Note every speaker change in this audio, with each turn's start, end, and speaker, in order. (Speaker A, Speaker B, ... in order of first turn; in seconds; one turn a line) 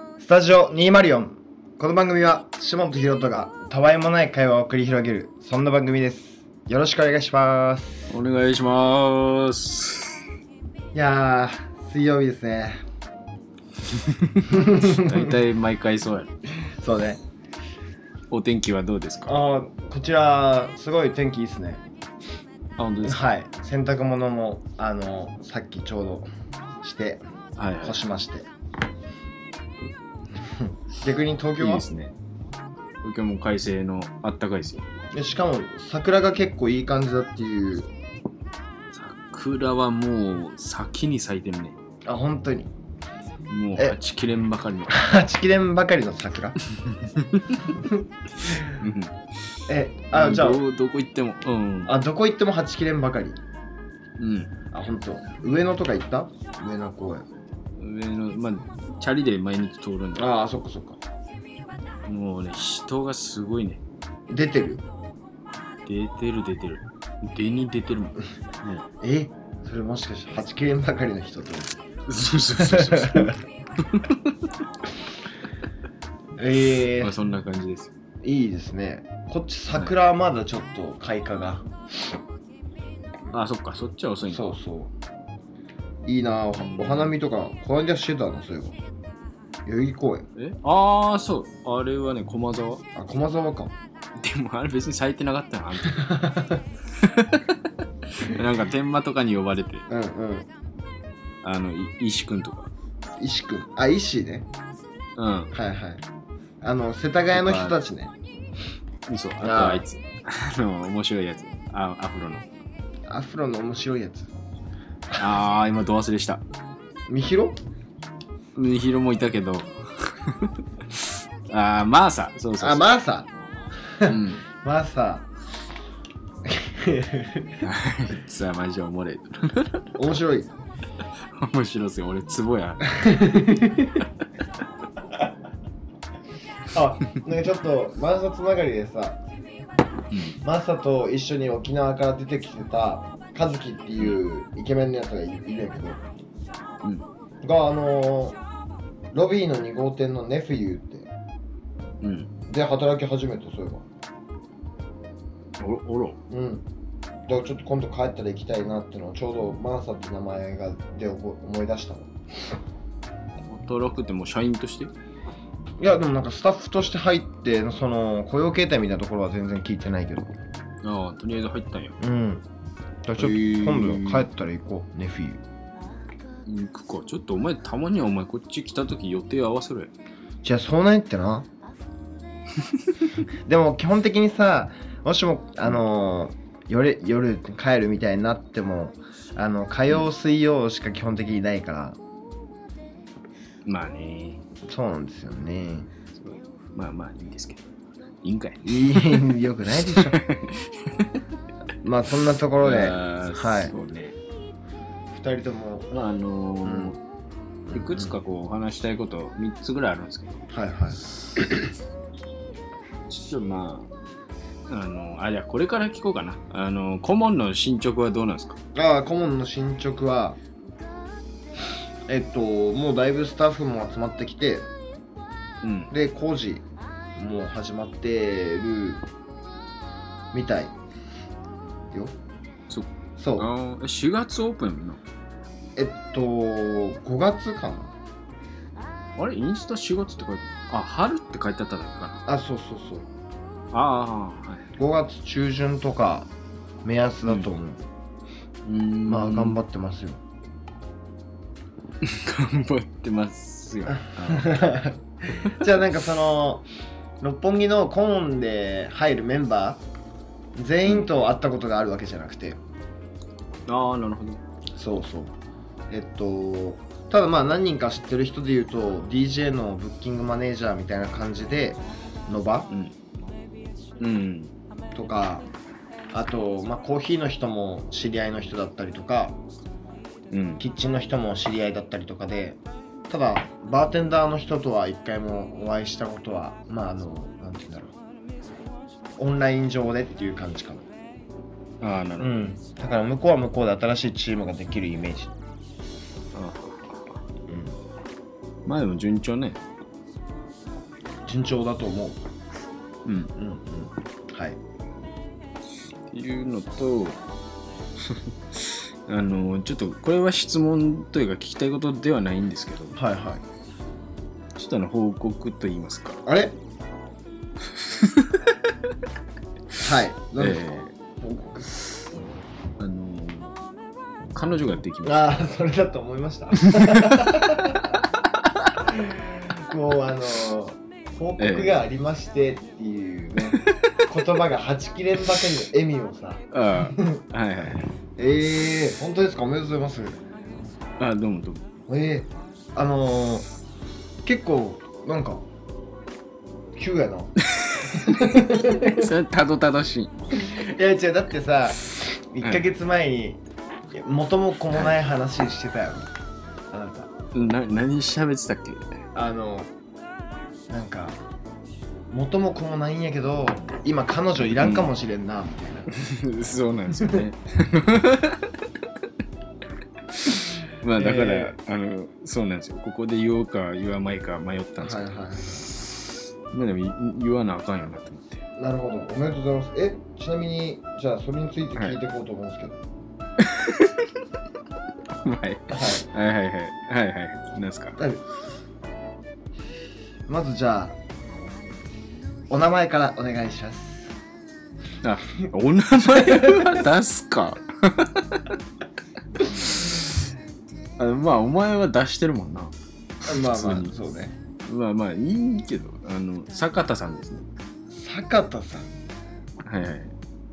Speaker A: 0.2-8.1
Speaker B: 8.1-10.2
Speaker A: 10.9-12.8
Speaker B: 14.2-16.3
Speaker A: 14.5-15.3
Speaker A: 16.6-17.2
Speaker B: 18.3-19.4
Speaker A: 19.2-21.8
Speaker B: 22.8-23.2
Speaker A: 23.0-26.3
Speaker A: 26.8-27.2
Speaker B: 27.6-28.0
Speaker A: 27.8-28.5
Speaker A: 30.5-31.8
Speaker B: 31.6-32.1
Speaker B: 33.0-34.8
Speaker A: 35.1-37.9
Speaker B: 38.9-41.8
Speaker A: 42.0-42.7
Speaker B: 43.5-45.0
Speaker A: 44.9-46.6
Speaker B: 47.1-47.7
Speaker A: 47.7-48.6
Speaker B: 48.5-49.2
Speaker A: 49.7-50.6
Speaker B: 50.1-52.0
Speaker A: 51.9-53.4
Speaker B: 54.2-54.5
Speaker A: 54.7-57.3
Speaker B: 57.8-60.3
Speaker A: 60.1-61.0
Speaker B: 62.0-63.8
Speaker A: 64.3-64.8
Speaker B: 65.8-68.8
Speaker A: 69.0-71.8
Speaker B: 72.1-74.3
Speaker A: 72.6-73.3
Speaker A: 76.4-77.1
Speaker B: 77.0-77.9
Speaker A: 78.2-81.7
Speaker B: 83.3-84.5
Speaker A: 84.3-84.9
Speaker A: 86.0-88.8
Speaker B: 86.6-87.1
Speaker A: 89.6-90.3
Speaker B: 90.3-92.8
Speaker A: 92.9-93.7
Speaker B: 94.2-96.1
Speaker A: 95.9-96.6
Speaker B: 97.0-97.5
Speaker B: 98.1-99.8
Speaker A: 99.9-100.5
Speaker B: 101.4-102.7
Speaker A: 103.2-104.5
Speaker B: 105.2-105.5
Speaker A: 105.5-106.0
Speaker A: 106.6-108.1
Speaker B: 107.3-107.8
Speaker B: 109.1-112.5
Speaker A: 109.4-109.8
Speaker A: 113.1-114.4
Speaker B: 115.2-116.4
Speaker A: 117.1-117.6
Speaker B: 118.5-122.9
Speaker A: 122.6-123.3
Speaker A: 123.9-125.3
Speaker B: 124.0-124.4
Speaker A: 126.5-127.6
Speaker B: 127.6-129.9
Speaker A: 129.9-130.5
Speaker B: 131.3-134.0
Speaker A: 132.9-133.9
Speaker A: 136.7-139.2
Speaker B: 140.1-140.4
Speaker A: 140.4-146.1
Speaker A: 147.4-148.4
Speaker A: 149.1-151.1
Speaker B: 152.0-152.3
Speaker A: 152.5-153.8
Speaker B: 155.6-156.2
Speaker A: 156.3-156.7
Speaker A: 157.3-162.1
Speaker B: 163.5-164.9
Speaker A: 165.8-170.4
Speaker B: 170.8-172.0
Speaker A: 172.0-172.4
Speaker A: 173.0-175.4
Speaker B: 173.2-174.3
Speaker B: 176.4-179.9
Speaker A: 180.4-181.5
Speaker A: 183.4-192.0
Speaker B: 193.7-194.4
Speaker A: 194.7-195.9
Speaker B: 196.1-197.7
Speaker B: 198.2-199.2
Speaker A: 198.6-200.2
Speaker B: 199.9-201.1
Speaker A: 201.8-203.7
Speaker B: 202.6-204.2
Speaker A: 205.1-205.9
Speaker B: 205.9-207.0
Speaker A: 206.6-206.9
Speaker A: 207.7-208.1
Speaker B: 207.7-210.4
Speaker A: 210.5-211.0
Speaker B: 213.1-213.9
Speaker B: 214.7-218.6
Speaker A: 218.7-220.4
Speaker A: 222.1-224.7
Speaker B: 225.6-225.9
Speaker A: 225.9-229.0
Speaker A: 230.3-230.8
Speaker A: 231.9-232.2
Speaker B: 232.7-235.0
Speaker A: 233.2-233.5
Speaker A: 235.8-237.9
Speaker B: 239.2-242.2
Speaker A: 242.2-243.1
Speaker B: 243.7-244.7
Speaker A: 244.8-246.3
Speaker A: 246.8-247.8
Speaker B: 248.6-249.6
Speaker A: 249.1-250.2
Speaker B: 252.0-254.5
Speaker A: 253.9-256.6
Speaker A: 257.2-259.8
Speaker A: 260.6-262.6
Speaker B: 263.7-264.4
Speaker A: 264.7-265.3
Speaker A: 265.9-272.7
Speaker B: 274.0-274.5
Speaker A: 274.9-275.5
Speaker A: 276.1-279.4
Speaker B: 280.3-280.6
Speaker A: 280.6-287.9
Speaker A: 289.2-290.9
Speaker B: 291.8-292.5
Speaker A: 292.2-295.3
Speaker B: 296.3-297.0
Speaker A: 297.5-297.8
Speaker B: 298.6-299.6
Speaker A: 301.2-302.2
Speaker B: 303.0-303.3
Speaker A: 303.4-304.6
Speaker B: 306.1-307.2
Speaker B: 308.0-313.0
Speaker A: 312.9-313.4
Speaker B: 314.6-316.2
Speaker A: 316.2-316.6
Speaker B: 317.7-318.5
Speaker A: 319.8-322.2
Speaker B: 320.4-320.9
Speaker B: 322.8-323.6
Speaker B: 324.3-325.4
Speaker A: 325.0-327.9
Speaker B: 326.7-327.3
Speaker A: 328.8-337.2
Speaker B: 331.4-331.8
Speaker B: 333.5-333.9
Speaker B: 336.5-337.9
Speaker A: 338.1-340.2
Speaker B: 341.0-341.6
Speaker A: 341.9-343.4
Speaker A: 344.2-345.4
Speaker A: 346.7-347.4
Speaker B: 347.4-350.3
Speaker A: 347.9-349.1
Speaker A: 350.4-356.1
Speaker A: 356.7-357.1
Speaker B: 357.3-358.9
Speaker A: 359.1-359.7
Speaker A: 360.7-361.2
Speaker A: 362.1-366.0
Speaker B: 364.4-364.9
Speaker B: 365.9-368.5
Speaker B: 370.7-375.1
Speaker A: 370.9-371.5
Speaker A: 374.8-375.7
Speaker B: 376.5-378.4
Speaker A: 378.6-382.8
Speaker B: 383.4-384.1
Speaker B: 385.2-388.0
Speaker A: 385.7-386.1
Speaker A: 388.0-388.2
Speaker A: 390.2-391.0
Speaker A: 392.5-394.1
Speaker B: 395.0-398.5
Speaker A: 396.1-396.7
Speaker B: 401.0-403.9
Speaker A: 403.2-404.4
Speaker B: 404.6-407.5
Speaker A: 407.9-408.9
Speaker B: 409.6-410.1